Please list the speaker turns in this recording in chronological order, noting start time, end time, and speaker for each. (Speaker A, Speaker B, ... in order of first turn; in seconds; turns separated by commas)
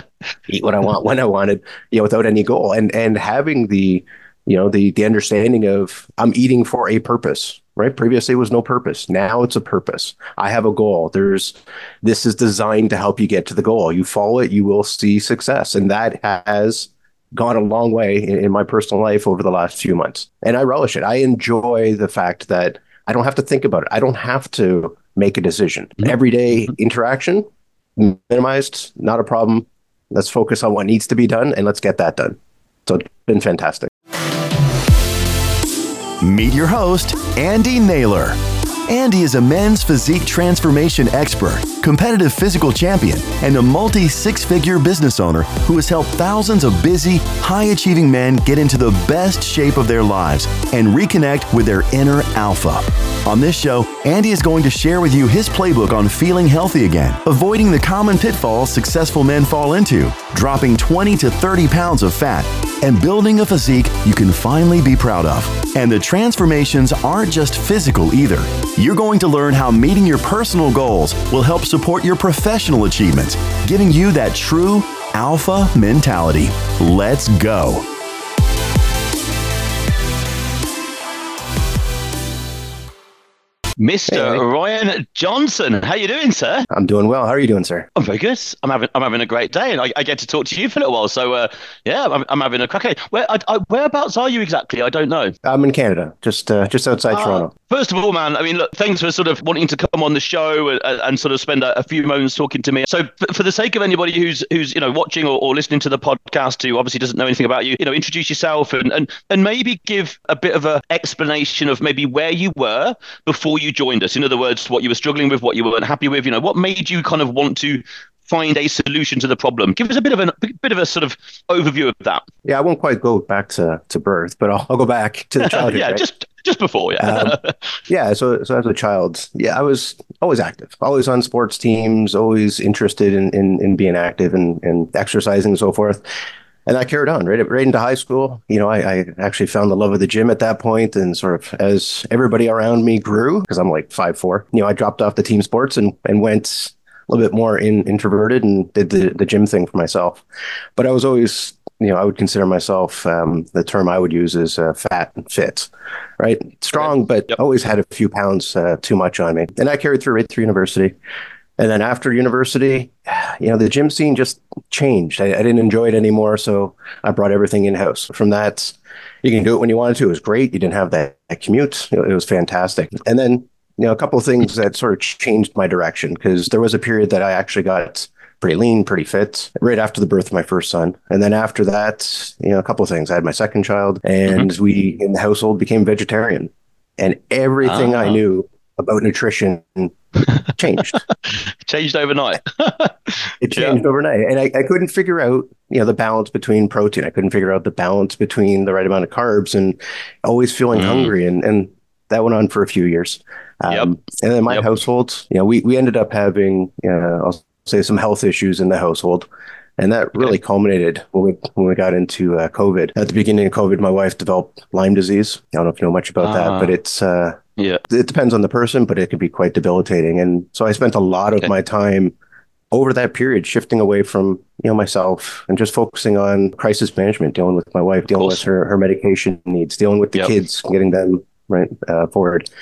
Speaker A: 0.5-33.9, Speaker B: 36.2-77.8, Speaker C: 83.8-86.7, Speaker A: 84.1-84.4, Speaker A: 86.7-87.9, Speaker C: 88.0-95.3, Speaker A: 95.4-97.5, Speaker C: 97.1-122.2, Speaker A: 122.4-126.0, Speaker C: 125.4-127.5, Speaker A: 127.0-127.4, Speaker A: 127.9-136.0, Speaker A: 136.7-150.2, Speaker A: 150.8-160.9, Speaker A: 161.6-189.9, Speaker C: 187.6-188.2, Speaker A: 190.5-191.0, Speaker C: 191.1-193.8, Speaker A: 193.4-209.3, Speaker C: 200.7-201.1, Speaker C: 204.5-204.7, Speaker A: 209.8-217.4, Speaker C: 216.2-216.7, Speaker A: 217.9-222.1, Speaker A: 222.7-232.4, Speaker C: 228.1-228.4